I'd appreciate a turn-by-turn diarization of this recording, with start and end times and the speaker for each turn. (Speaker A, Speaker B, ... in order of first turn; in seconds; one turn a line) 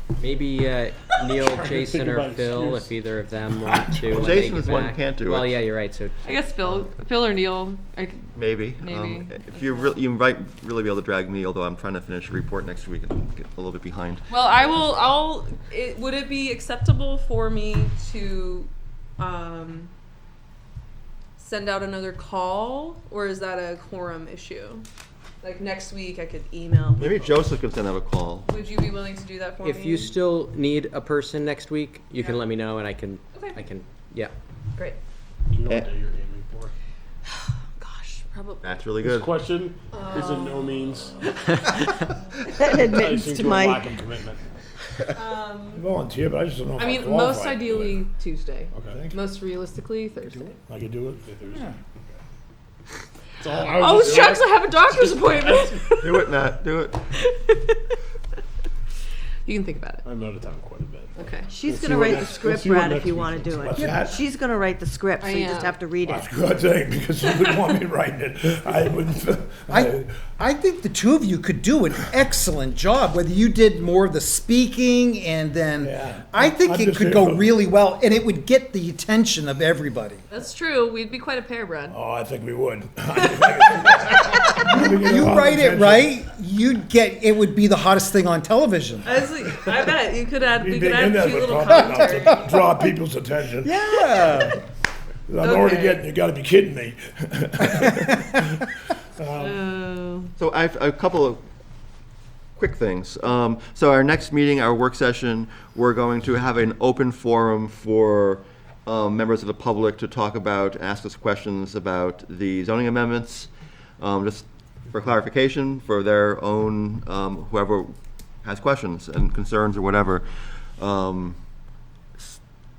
Speaker A: 0.2-6.3
Speaker B: 1.3-3.0
Speaker C: 4.0-5.6
Speaker D: 6.2-10.0
Speaker C: 8.3-14.2
Speaker D: 14.3-19.9
Speaker D: 21.4-24.9
Speaker D: 25.4-27.2
Speaker C: 27.0-28.5
Speaker D: 28.4-30.1
Speaker A: 29.6-34.3
Speaker D: 33.3-33.6
Speaker B: 35.5-36.7
Speaker D: 37.3-38.8
Speaker C: 38.6-39.4
Speaker B: 39.0-41.3
Speaker D: 39.9-40.8
Speaker E: 42.5-43.9
Speaker B: 42.8-44.4
Speaker D: 45.1-45.9
Speaker F: 45.7-48.0
Speaker D: 46.8-50.5
Speaker F: 48.8-49.2
Speaker F: 50.7-51.3
Speaker B: 51.2-52.2
Speaker B: 53.4-55.8
Speaker D: 53.7-56.4
Speaker C: 56.0-57.0
Speaker D: 57.1-58.0
Speaker D: 59.5-60.0
Speaker B: 60.0-63.7
Speaker D: 61.2-61.5
Speaker E: 61.5-66.3
Speaker G: 63.7-64.0
Speaker F: 63.7-64.3
Speaker D: 65.2-65.8
Speaker F: 66.0-70.2
Speaker G: 69.7-80.2
Speaker F: 75.8-77.5
Speaker D: 80.3-82.0
Speaker F: 81.9-86.1
Speaker D: 83.2-84.6
Speaker G: 84.6-89.2
Speaker D: 89.0-92.9
Speaker F: 90.6-93.8
Speaker G: 93.6-94.5
Speaker F: 95.3-98.7
Speaker D: 95.4-96.0
Speaker F: 99.2-99.6
Speaker D: 99.4-100.3
Speaker C: 100.4-101.4
Speaker C: 102.6-121.4